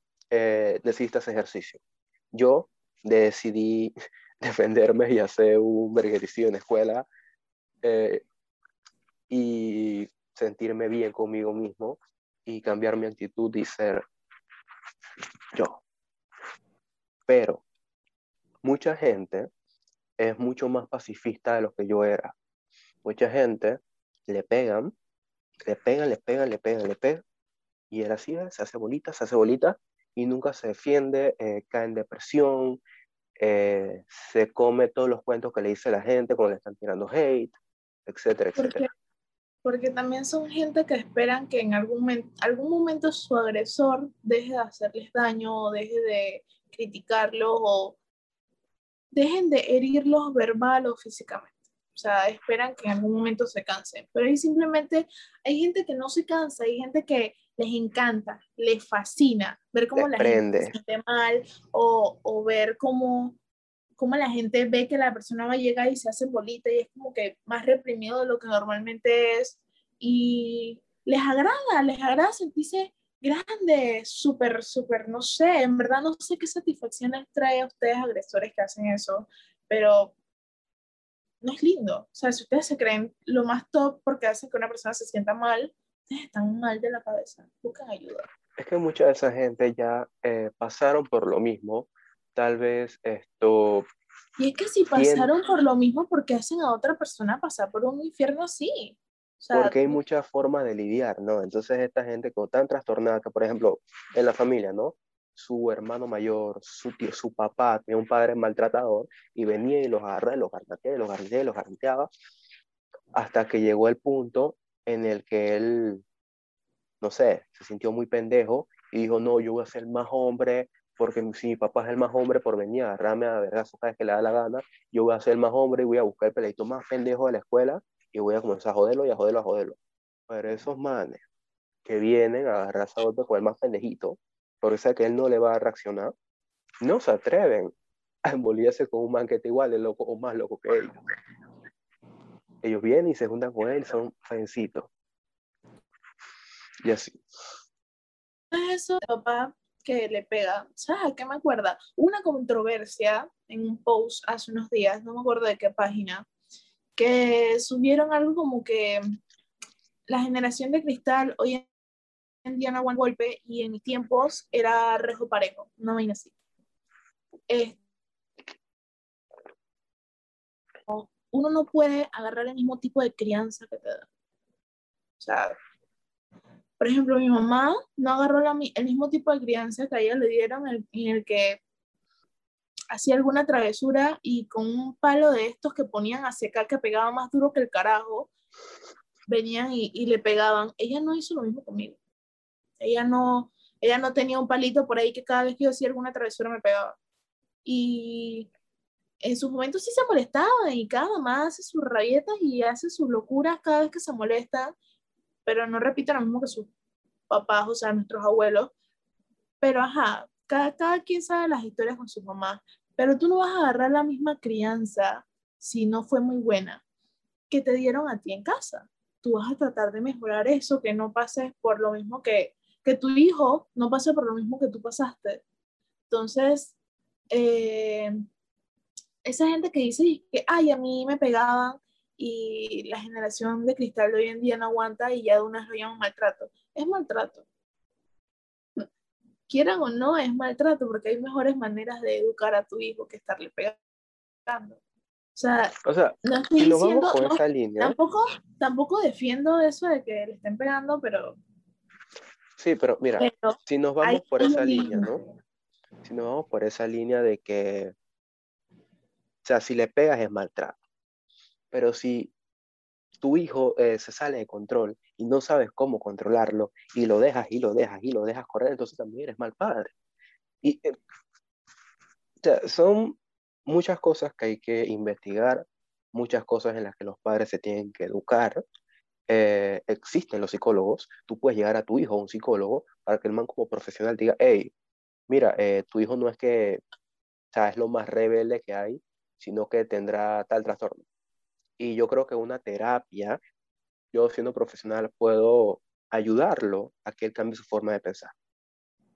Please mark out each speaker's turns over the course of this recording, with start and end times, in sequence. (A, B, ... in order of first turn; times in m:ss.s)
0:00.3-0:01.8 A
0:02.3-0:07.0 A
0:07.8-0:08.2 A
0:09.3-0:14.0 A
0:15.5-0:15.8 A
0:17.3-0:17.6 A
0:18.6-0:19.5 A
0:20.2-0:22.3 A
0:23.0-0:24.9 A
0:25.6-0:27.2 A
0:27.9-0:32.8 A
0:33.4-0:37.5 A
0:38.1-0:38.8 A
0:38.6-0:38.9 B
0:39.6-0:48.0 B
0:49.1-1:03.4 B
1:00.0-1:00.8 A
1:04.0-1:20.1 B
1:21.4-1:28.2 B
1:28.6-1:33.8 A
1:34.4-1:40.0 B
1:35.0-1:35.3 A
1:39.5-1:52.1 A
1:53.2-1:56.0 A
1:57.0-2:09.8 A
2:10.3-2:11.2 A
2:11.8-2:16.1 A
2:16.8-2:17.7 A
2:18.2-2:21.0 A
2:22.6-2:24.9 A
2:26.8-2:27.2 A
2:28.5-2:36.2 B
2:37.0-2:39.0 B
2:40.1-2:41.7 B
2:42.5-2:46.3 B
2:47.5-2:47.8 B
2:50.9-2:54.1 B
2:55.2-2:55.6 B
2:56.8-3:01.6 B
3:02.9-3:08.3 B
3:09.3-3:12.0 B
3:12.8-3:17.0 B
3:17.6-3:18.5 B
3:19.2-3:24.7 B
3:25.4-3:26.7 B
3:27.3-3:28.7 B
3:29.6-3:36.8 B
3:37.5-3:45.4 B
3:46.1-3:46.7 B
3:47.3-3:48.1 B
3:49.2-3:57.4 B
3:59.5-4:03.8 B
4:04.4-4:04.8 B
4:05.4-4:11.4 B
4:05.8-4:08.0 A
4:12.6-4:15.2 A
4:13.2-4:15.1 B
4:16.0-4:17.9 A
4:19.4-4:20.8 A
4:21.7-4:22.3 A
4:23.2-4:29.9 A
4:30.6-4:31.0 A
4:32.4-4:38.6 A
4:39.3-4:44.7 A
4:45.3-4:46.8 A
4:47.5-4:51.0 A
4:51.8-4:53.4 A
4:54.1-4:58.3 A